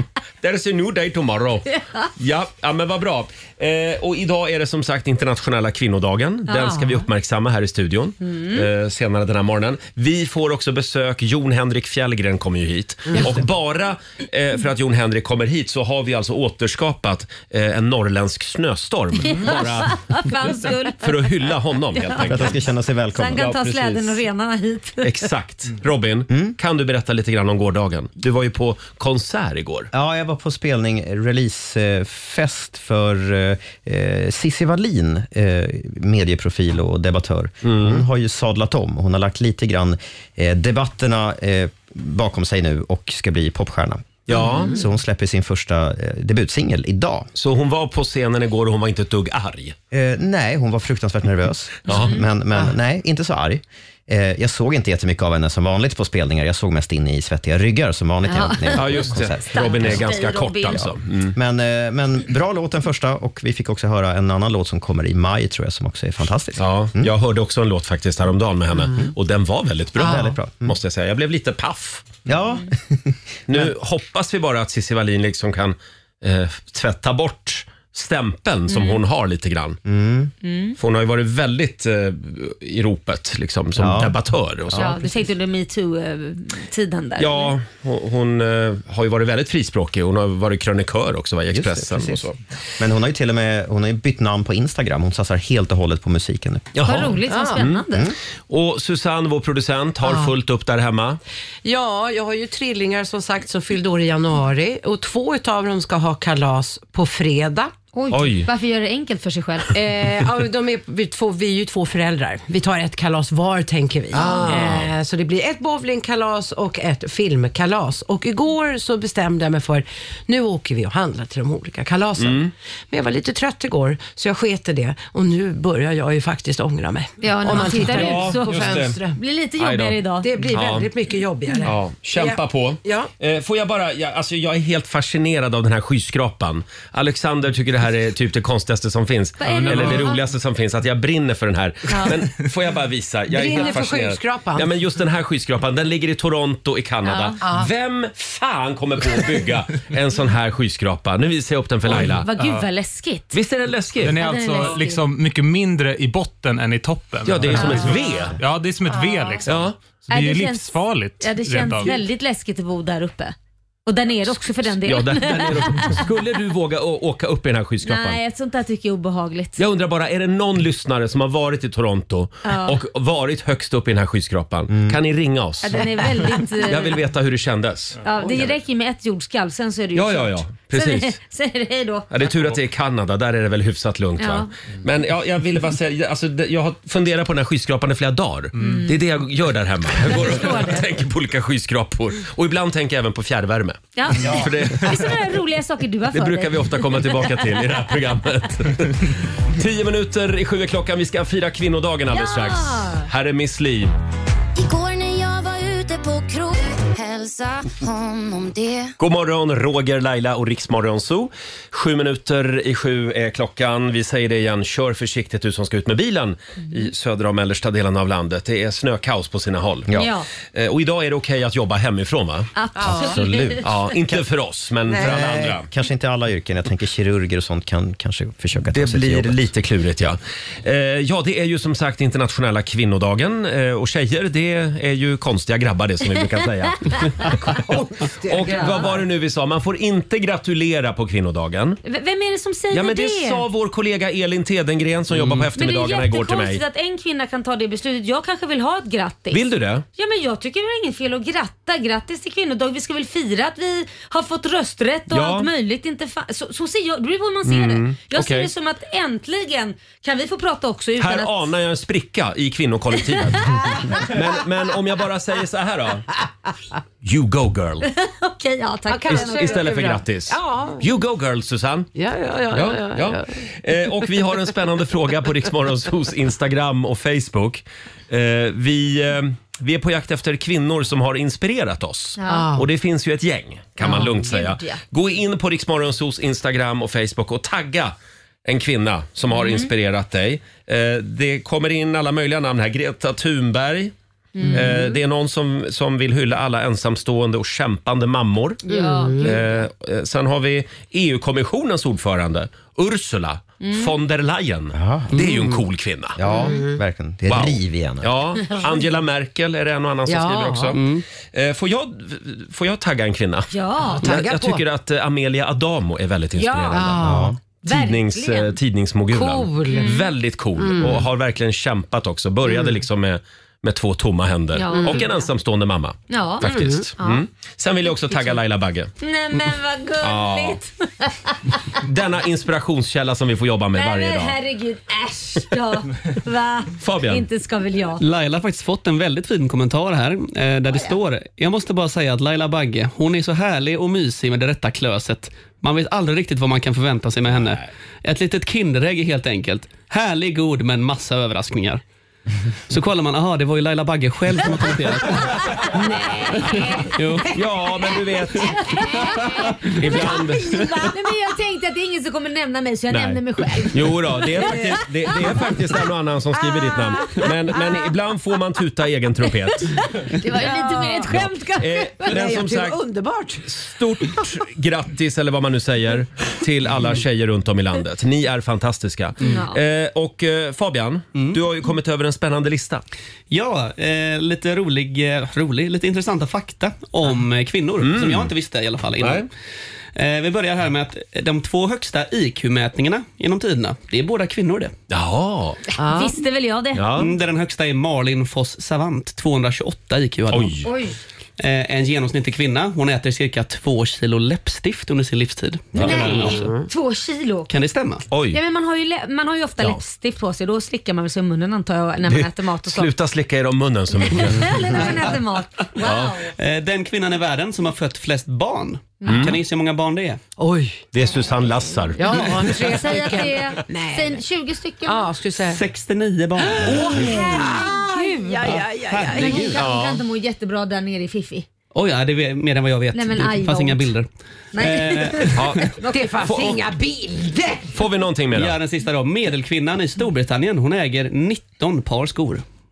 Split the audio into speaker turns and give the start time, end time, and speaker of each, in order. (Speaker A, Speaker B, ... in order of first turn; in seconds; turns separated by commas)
Speaker A: 0.4-20.0, Speaker B: 6.5-6.8, Speaker B: 8.2-8.7, Speaker B: 19.2-21.3, Speaker A: 20.9-22.6, Speaker B: 22.0-22.5, Speaker C: 22.3-23.6, Speaker B: 23.1-25.3, Speaker A: 23.4-24.2, Speaker A: 25.0-29.9, Speaker C: 26.3-26.6, Speaker C: 29.9-47.3, Speaker A: 37.6-38.0, Speaker A: 44.3-44.8, Speaker A: 47.4-49.8, Speaker C: 49.9-60.2, Speaker A: 51.9-52.2, Speaker B: 51.9-52.2, Speaker B: 58.2-60.9, Speaker A: 58.7-61.4, Speaker C: 60.7-67.1, Speaker A: 66.6-72.2, Speaker C: 68.8-69.1, Speaker C: 70.0-70.8, Speaker D: 70.0-70.3, Speaker C: 72.3-73.7, Speaker A: 73.5-79.8, Speaker B: 78.7-79.0, Speaker C: 79.8-80.3, Speaker B: 80.4-80.8, Speaker A: 80.8-85.0, Speaker C: 83.8-84.2, Speaker C: 84.7-85.0, Speaker B: 84.7-87.5, Speaker A: 87.2-92.4, Speaker C: 91.5-92.3, Speaker C: 92.8-97.0, Speaker A: 96.8-97.8, Speaker B: 96.8-98.1, Speaker D: 97.3-97.6, Speaker A: 98.5-101.2, Speaker D: 100.0-100.3, Speaker D: 101.6-107.7, Speaker B: 108.0-109.8, Speaker A: 108.1-108.5, Speaker D: 109.7-129.2, Speaker B: 114.1-114.6, Speaker A: 114.1-114.9, Speaker A: 122.2-122.5, Speaker B: 127.2-130.3, Speaker A: 127.6-129.0, Speaker A: 129.6-130.9, Speaker D: 130.2-133.1, Speaker A: 131.6-152.3, Speaker B: 139.4-140.2, Speaker D: 143.3-144.7, Speaker B: 147.1-147.4, Speaker D: 147.4-147.7, Speaker B: 151.9-153.4, Speaker E: 152.1-152.7, Speaker A: 153.3-154.2, Speaker E: 154.0-162.0, Speaker B: 154.2-155.0, Speaker A: 157.2-158.4, Speaker B: 157.5-158.1, Speaker A: 159.5-159.8, Speaker B: 160.1-163.3, Speaker B: 163.9-166.1, Speaker A: 164.6-168.2, Speaker B: 167.8-169.6, Speaker A: 169.6-178.4, Speaker B: 172.4-172.8, Speaker C: 174.7-175.0, Speaker B: 175.6-177.0, Speaker B: 178.0-182.1, Speaker A: 179.9-181.2, Speaker A: 182.1-195.2, Speaker B: 184.2-184.5, Speaker B: 188.6-189.0, Speaker B: 190.1-190.8, Speaker B: 194.0-197.4, Speaker A: 196.1-203.9, Speaker B: 202.1-203.1, Speaker F: 204.6-208.9, Speaker A: 209.0-225.7, Speaker B: 220.0-220.3, Speaker B: 222.6-223.8, Speaker D: 222.8-223.2, Speaker C: 222.9-224.3, Speaker C: 224.9-229.5, Speaker A: 228.7-237.7, Speaker D: 237.4-239.1, Speaker A: 238.2-241.8, Speaker B: 238.5-238.9, Speaker B: 241.8-243.4, Speaker A: 242.7-246.6, Speaker G: 245.1-245.5, Speaker B: 245.6-249.4, Speaker A: 249.3-249.8, Speaker B: 250.0-261.4, Speaker A: 255.1-255.5, Speaker A: 257.4-258.5, Speaker A: 261.0-266.1, Speaker A: 267.0-267.9, Speaker B: 267.9-269.7, Speaker D: 268.9-270.9, Speaker A: 269.1-271.9, Speaker D: 271.9-273.3, Speaker A: 272.5-287.9, Speaker B: 282.2-282.5, Speaker D: 282.3-282.7, Speaker B: 283.8-284.8, Speaker A: 288.5-293.9, Speaker B: 289.3-289.7, Speaker B: 294.4-294.9, Speaker D: 294.4-294.9, Speaker A: 294.5-298.6, Speaker D: 298.6-299.4, Speaker B: 298.7-299.4, Speaker A: 299.2-306.2, Speaker B: 303.6-303.9, Speaker C: 304.7-305.2, Speaker C: 306.2-308.1, Speaker D: 306.2-306.8, Speaker A: 307.3-310.8, Speaker D: 310.1-310.8, Speaker G: 310.7-311.0, Speaker A: 311.3-328.9, Speaker B: 313.5-314.1, Speaker D: 314.0-314.6, Speaker B: 316.4-316.9, Speaker D: 316.7-317.3, Speaker C: 317.0-317.4, Speaker B: 317.6-318.5, Speaker D: 319.1-320.1, Speaker B: 319.7-320.1, Speaker D: 320.6-321.1, Speaker D: 322.5-322.7, Speaker B: 324.6-325.3, Speaker D: 324.7-325.1, Speaker B: 326.1-327.2, Speaker D: 326.4-326.9, Speaker B: 328.1-328.4, Speaker B: 329.0-331.4, Speaker A: 330.0-330.6, Speaker A: 331.8-334.4, Speaker B: 333.8-338.0, Speaker A: 336.8-337.2, Speaker G: 338.0-351.8, Speaker G: 352.7-355.6, Speaker D: 355.7-356.6, Speaker G: 356.5-357.3, Speaker A: 357.3-360.7, Speaker B: 358.5-365.5, Speaker D: 358.7-359.2, Speaker A: 362.9-363.2, Speaker A: 363.7-369.8, Speaker D: 366.7-367.2, Speaker B: 369.7-372.2, Speaker D: 370.2-371.1, Speaker A: 371.1-372.8, Speaker D: 372.0-373.4, Speaker A: 373.4-382.8, Speaker B: 379.2-379.6, Speaker G: 383.3-389.3, Speaker A: 387.8-388.3, Speaker A: 389.0-389.3, Speaker G: 390.0-394.7, Speaker A: 394.9-395.6, Speaker D: 395.8-396.2, Speaker B: 395.8-396.9, Speaker A: 396.8-397.1, Speaker G: 397.0-400.6, Speaker A: 400.3-400.7, Speaker B: 400.6-401.0, Speaker G: 401.4-406.5, Speaker A: 405.8-406.7, Speaker B: 405.8-407.5, Speaker G: 407.5-408.0, Speaker A: 408.1-408.4, Speaker B: 408.3-412.9, Speaker A: 412.1-415.0, Speaker B: 414.0-416.3, Speaker A: 415.8-416.2, Speaker G: 416.4-420.2, Speaker A: 419.1-419.4, Speaker D: 420.4-420.9, Speaker A: 420.9-422.7, Speaker D: 422.0-424.2, Speaker B: 422.2-425.1, Speaker D: 424.9-425.6, Speaker G: 425.4-427.1, Speaker D: 426.4-429.6, Speaker A: 426.7-427.2, Speaker B: 426.8-431.5, Speaker G: 428.4-429.6, Speaker A: 429.5-430.0, Speaker G: 431.7-435.6, Speaker B: 432.9-433.9, Speaker B: 434.5-436.0, Speaker A: 435.4-436.6, Speaker D: 435.8-437.7, Speaker A: 437.7-438.6, Speaker G: 438.3-442.4